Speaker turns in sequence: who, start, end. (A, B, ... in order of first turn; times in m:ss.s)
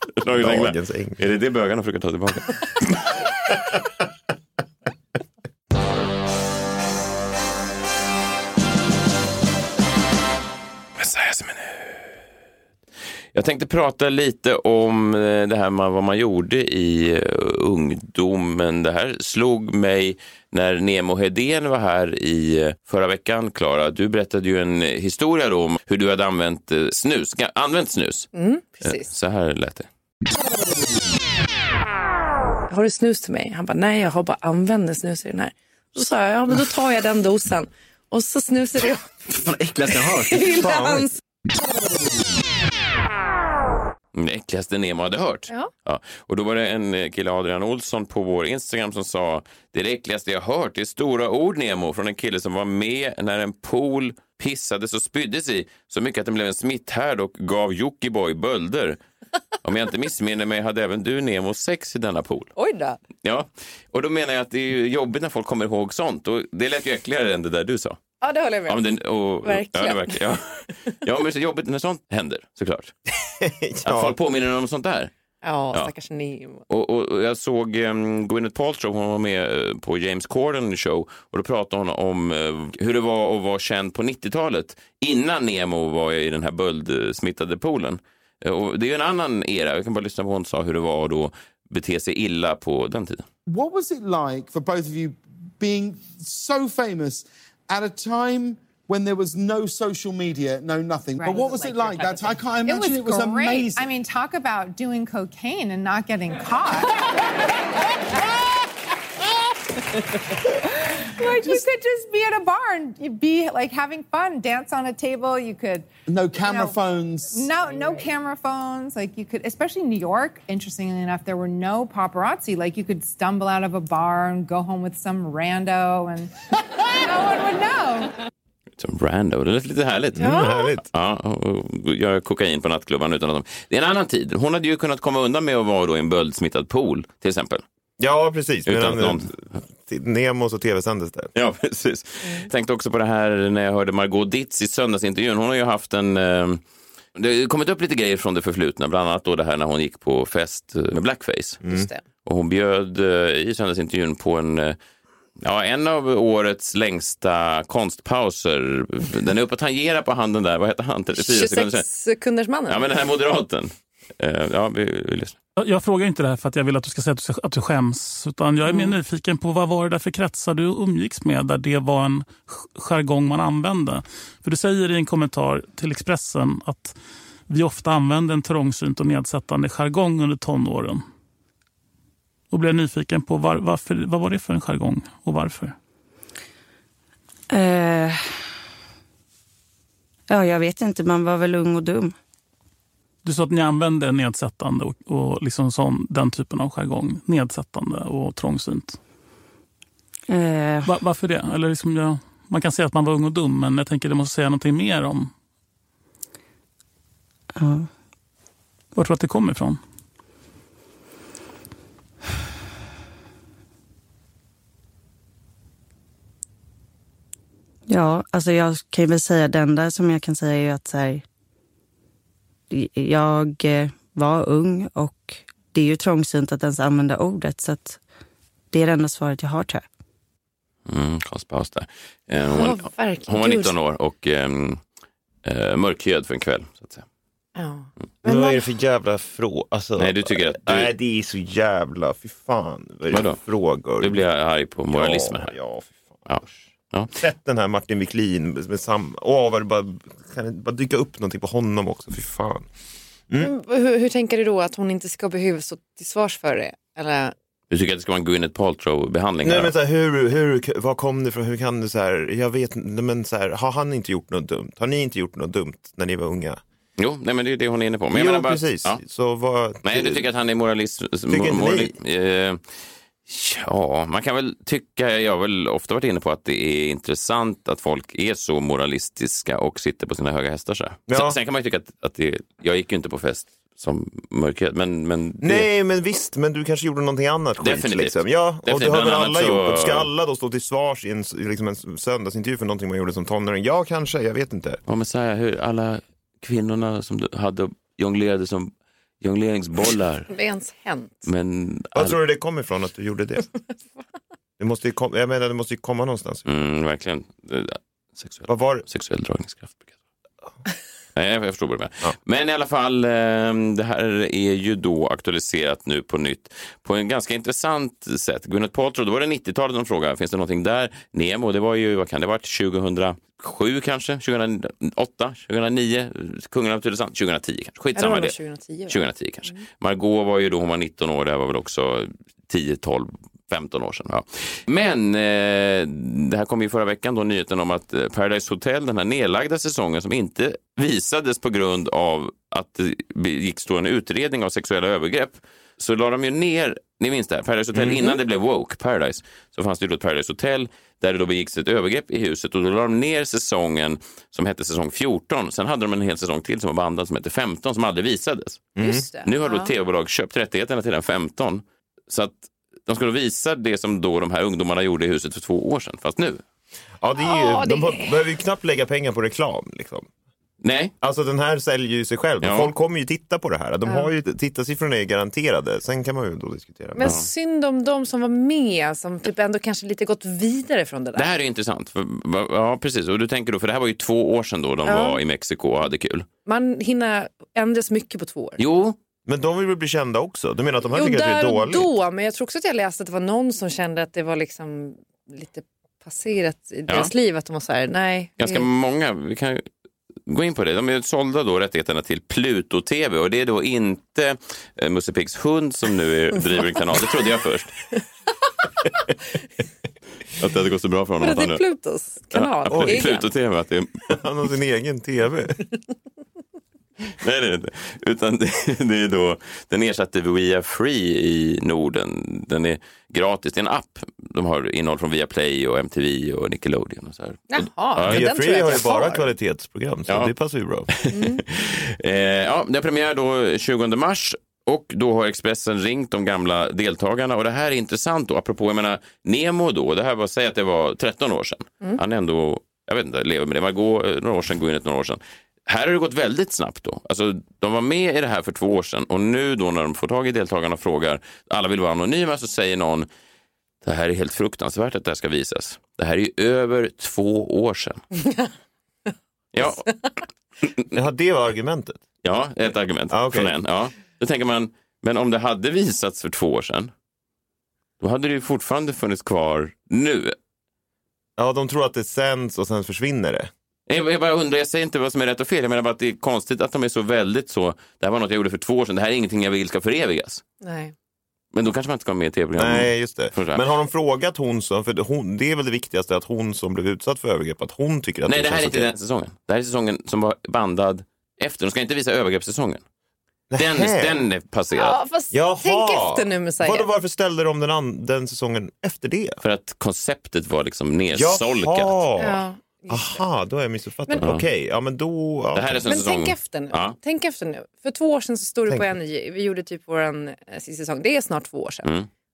0:00.2-0:03.0 A
0:00.3-0:01.2 B
0:11.0-0:12.1 A
0:13.3-0:28.3 A
0:28.3-0:29.1 C
0:28.8-0:29.9 A
0:32.7-0:39.2 C
0:39.3-0:40.9 A
0:40.1-0:41.2 C
0:44.1-0:59.0 A
0:59.6-1:02.5 A
1:02.6-1:03.0 C
1:03.2-1:08.0 A
1:08.2-1:08.9 C
1:08.7-1:12.9 A
1:09.4-1:10.2 C
1:13.4-1:14.2 B
1:13.8-1:15.1 A
1:15.4-1:16.6 C
1:16.7-1:33.2 A
1:33.5-1:43.9 D
1:41.2-1:47.1 E
1:51.1-1:56.8 E
1:56.1-1:58.0 D
1:57.3-2:08.2 E
2:08.8-2:17.6 A
2:10.1-2:10.8 B
2:10.2-2:10.7 C
2:18.0-2:21.3 B
2:18.6-2:19.3 A
2:21.3-2:26.6 A
2:27.1-2:31.6 A
2:31.6-2:31.9 B
2:31.6-2:32.0 C
2:32.2-2:34.8 A
2:35.4-2:41.8 A
2:41.2-2:42.8 C
2:42.7-2:45.4 A
2:45.6-2:57.0 F
2:48.7-2:48.9 C
2:57.5-3:01.0 F
3:02.5-3:05.7 F
3:07.5-3:08.2 G
3:10.3-3:12.1 G
3:13.2-3:19.0 F
3:20.3-3:20.9 G
3:20.9-3:25.3 F
3:27.6-3:27.9 G
3:28.9-3:29.8 F
3:37.9-3:41.2 G
3:42.7-3:48.0 G
3:48.7-3:49.8 G
3:50.9-3:54.8 A
3:52.5-3:53.7 C
3:55.4-3:57.0 A
3:57.6-3:58.6 C
3:58.2-4:04.2 B
4:00.0-4:00.9 A
4:03.1-4:03.4 A
4:04.0-4:05.5 A
4:04.9-4:06.6 B
4:06.3-4:07.1 A
4:07.2-4:12.7 B
4:13.4-4:17.3 C
4:17.7-4:19.7 A
4:19.4-4:26.6 B
4:27.0-4:29.0 A
4:28.1-4:30.2 B
4:29.8-4:32.6 A
4:31.3-4:31.9 B
4:33.2-4:45.7 A
4:41.1-4:41.4 B
4:45.4-4:54.8 B
4:47.6-4:50.1 A
4:54.9-5:00.3 A
5:00.3-5:01.3 C
5:01.2-5:02.2 A
5:01.9-5:03.5 B
5:04.6-5:06.4 B
5:06.4-5:09.9 A
5:08.5-5:08.8 B
5:11.1-5:28.4 A
5:27.9-5:29.6 C
5:28.9-6:06.4 A
5:47.7-5:48.2 B
5:58.8-5:59.0 B
5:58.8-5:59.7 C
6:07.0-6:10.1 B
6:07.2-6:08.2 C
6:10.6-6:10.9 A
6:11.0-6:17.1 B
6:12.4-6:12.7 A
6:16.9-6:21.3 C
6:17.0-6:17.3 A
6:21.2-6:26.3 A
6:24.8-6:25.2 C
6:26.4-6:28.6 C
6:28.6-6:29.0 A
6:29.2-6:31.9 B
6:30.9-6:38.7 C
6:38.4-6:39.7 A
6:40.3-6:47.7 A
6:50.4-6:51.6 A
6:51.2-6:53.3 C
6:52.3-6:54.0 A
6:52.7-6:53.0 B
6:54.1-6:55.6 B
6:57.2-7:08.2 A
7:07.5-7:09.3 C
7:08.0-7:10.9 B
7:10.1-7:10.3 A
7:10.9-7:33.1 A
7:11.1-7:11.4 C
7:33.8-7:38.0 A
7:39.5-7:39.8 A
7:40.9-7:42.0 B
7:42.2-7:46.9 A
7:43.1-7:43.5 B
7:48.0-7:50.4 A
7:51.4-7:53.5 B
7:53.9-8:00.4 A
8:00.6-8:00.9 C
8:01.5-8:03.6 A
8:02.6-8:08.9 B
8:08.2-8:12.8 A
8:13.5-8:14.2 B
8:13.6-8:15.0 A
8:14.7-8:16.9 C
8:15.3-8:19.4 B
8:19.4-8:22.0 A
8:21.1-8:25.9 B
8:22.2-8:23.2 C
8:24.2-8:24.4 A
8:25.5-8:27.0 A
8:25.8-8:31.9 C
8:31.8-8:32.1 A